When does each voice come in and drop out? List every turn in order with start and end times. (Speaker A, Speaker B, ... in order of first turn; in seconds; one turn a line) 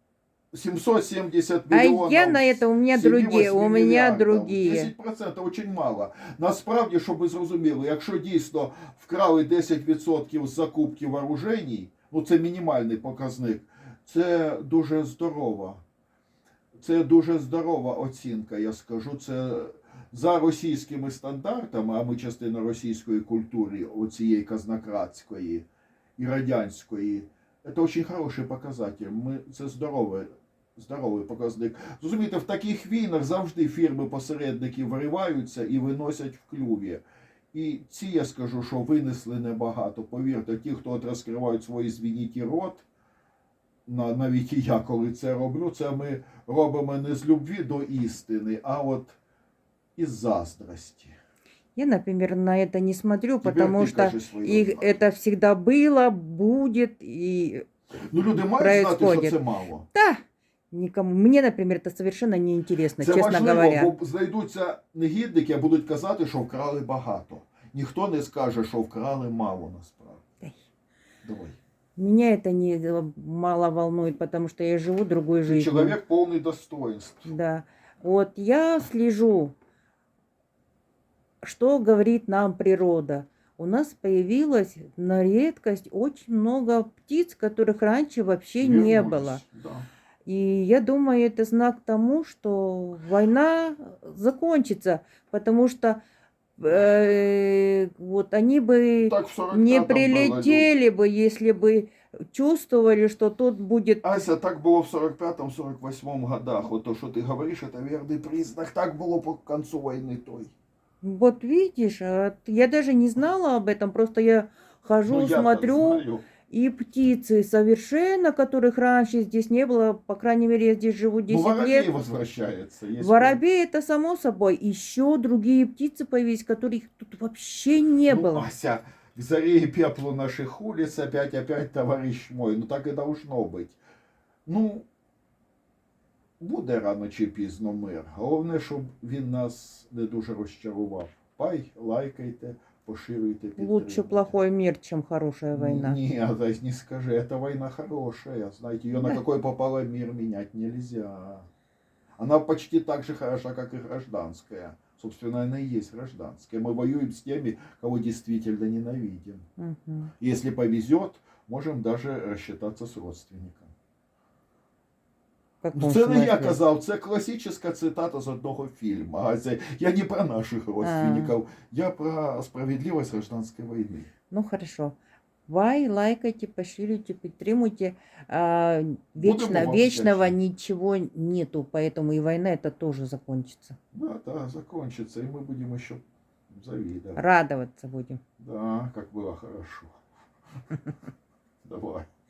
Speaker A: 0.5-15.8
Speaker B: 1.7-4.9
Speaker A: 16.8-25.7
Speaker A: 26.2-42.9
Speaker A: 43.9-49.2
Speaker A: 50.0-51.1
Speaker B: 51.8-57.6
Speaker A: 53.4-54.9
Speaker A: 58.1-59.9
Speaker B: 58.6-59.4
Speaker B: 59.9-63.9
Speaker A: 63.0-70.2
Speaker A: 71.2-71.6
Speaker B: 72.0-76.0
Speaker A: 75.5-77.3
Speaker B: 77.2-79.5
Speaker B: 81.4-89.4
Speaker A: 88.6-89.9
Speaker B: 90.3-96.0
Speaker B: 96.6-104.2
Speaker A: 99.0-100.7
Speaker A: 104.0-110.5
Speaker B: 111.0-121.9
Speaker A: 115.1-116.2
Speaker A: 121.3-123.4
Speaker B: 123.0-128.5
Speaker A: 128.1-133.8
Speaker A: 134.5-134.9
Speaker A: 136.4-144.4
Speaker B: 143.6-146.0
Speaker A: 145.5-151.5
Speaker A: 152.2-159.4
Speaker B: 159.6-160.1
Speaker A: 160.2-163.7
Speaker B: 165.6-166.6
Speaker A: 165.7-174.1
Speaker B: 170.8-171.3
Speaker B: 174.3-174.9
Speaker B: 175.5-183.8
Speaker A: 179.2-180.3
Speaker A: 183.9-187.2
Speaker B: 187.2-188.2
Speaker A: 188.4-190.0
Speaker A: 191.7-192.1